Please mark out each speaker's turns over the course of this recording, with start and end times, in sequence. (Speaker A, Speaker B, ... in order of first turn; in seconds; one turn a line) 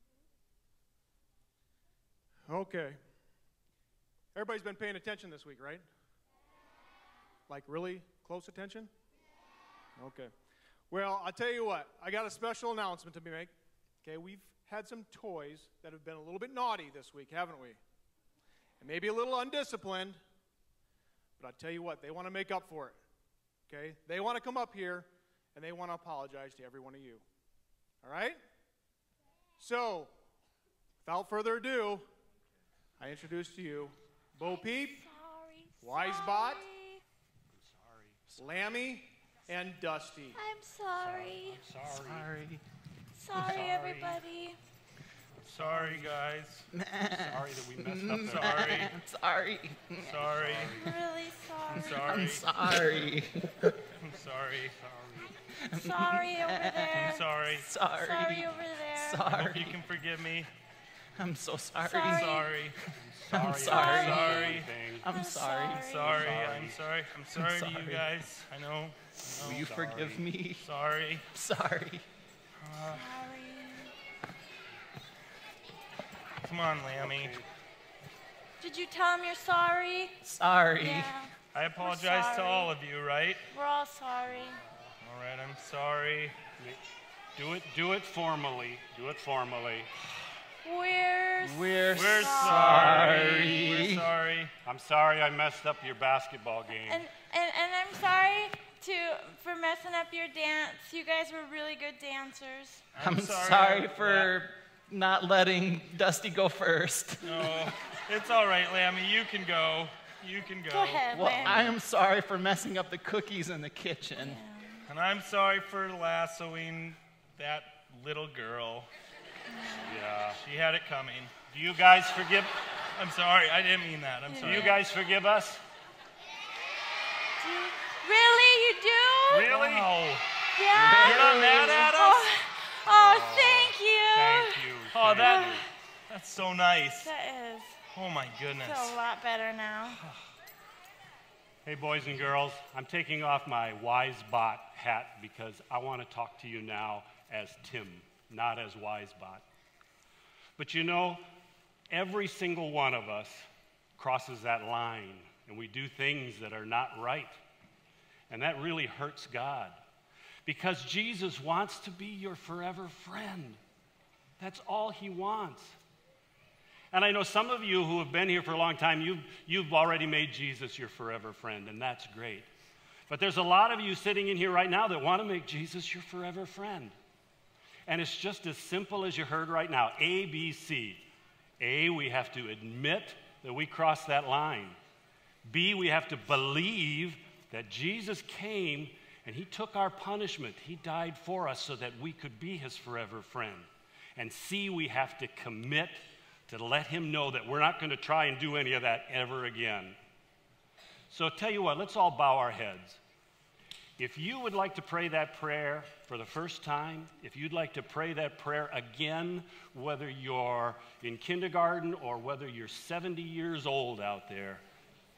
Speaker A: 2.5-3.0
Speaker A: 4.3-5.8
Speaker A: 7.5-8.9
Speaker A: 10.0-10.3
Speaker A: 10.9-13.5
Speaker A: 14.0-17.8
Speaker A: 18.8-20.2
Speaker A: 21.4-23.0
Speaker A: 23.7-27.2
Speaker A: 28.0-28.4
Speaker A: 29.6-30.1
Speaker A: 31.0-32.0
Speaker A: 33.0-35.1
Speaker B: 34.4-37.0
Speaker A: 35.8-36.6
Speaker C: 37.6-38.2
Speaker A: 38.4-40.4
Speaker B: 40.4-41.6
Speaker C: 41.0-42.3
Speaker D: 41.9-42.6
Speaker B: 43.1-44.6
Speaker D: 43.3-43.6
Speaker C: 43.5-44.2
Speaker E: 45.5-46.6
Speaker C: 45.5-46.1
Speaker D: 46.7-50.3
Speaker C: 47.1-48.6
Speaker E: 48.2-48.9
Speaker E: 50.0-50.7
Speaker C: 50.3-50.8
Speaker B: 50.7-52.0
Speaker E: 51.7-52.8
Speaker D: 51.7-53.7
Speaker E: 54.0-54.8
Speaker C: 54.6-55.3
Speaker D: 55.6-59.8
Speaker B: 55.7-57.4
Speaker E: 56.9-57.7
Speaker B: 58.0-59.3
Speaker E: 59.2-60.5
Speaker D: 61.2-62.7
Speaker B: 61.8-62.3
Speaker E: 62.1-62.8
Speaker C: 63.0-63.9
Speaker D: 63.3-66.0
Speaker E: 63.5-64.7
Speaker B: 63.8-66.4
Speaker C: 64.4-65.1
Speaker E: 65.8-69.8
Speaker C: 66.1-66.8
Speaker D: 67.3-68.1
Speaker D: 69.3-70.7
Speaker C: 69.5-70.2
Speaker E: 70.6-71.2
Speaker D: 71.3-72.0
Speaker E: 72.6-73.1
Speaker B: 72.8-73.9
Speaker E: 76.4-77.4
Speaker C: 77.0-77.5
Speaker B: 78.6-80.2
Speaker D: 80.2-81.1
Speaker B: 80.8-82.8
Speaker E: 81.5-83.5
Speaker B: 83.5-84.6
Speaker E: 85.0-86.3
Speaker C: 87.4-89.9
Speaker B: 90.6-93.6
Speaker D: 91.4-94.1
Speaker E: 91.9-94.5
Speaker C: 94.7-97.0
Speaker B: 96.8-103.0
Speaker E: 102.9-104.3
Speaker D: 103.0-107.7
Speaker E: 107.2-111.1
Speaker B: 110.7-111.8
Speaker D: 111.1-114.4
Speaker B: 114.2-114.9
Speaker E: 114.9-118.9
Speaker B: 119.5-120.1
Speaker C: 119.9-120.4
Speaker E: 120.3-121.3
Speaker C: 121.5-122.5
Speaker E: 123.0-124.7
Speaker B: 124.3-124.8
Speaker C: 124.4-125.6
Speaker B: 127.4-129.5
Speaker C: 129.3-130.0
Speaker E: 129.4-130.2
Speaker B: 130.6-135.7
Speaker D: 130.7-131.9
Speaker E: 130.8-132.3
Speaker C: 132.9-135.6
Speaker E: 134.9-137.1
Speaker B: 136.8-137.8
Speaker E: 137.9-139.0
Speaker B: 138.5-140.0
Speaker C: 141.7-149.4
Speaker C: 150.6-151.2
Speaker C: 151.9-153.5
Speaker C: 154.0-157.4
Speaker C: 158.3-159.8
Speaker C: 160.4-163.6
Speaker C: 164.4-165.8
Speaker C: 166.9-172.5
Speaker C: 173.1-176.9
Speaker C: 177.9-181.1
Speaker C: 181.6-184.8
Speaker C: 185.5-200.0
Speaker C: 201.1-203.0
Speaker C: 204.0-214.6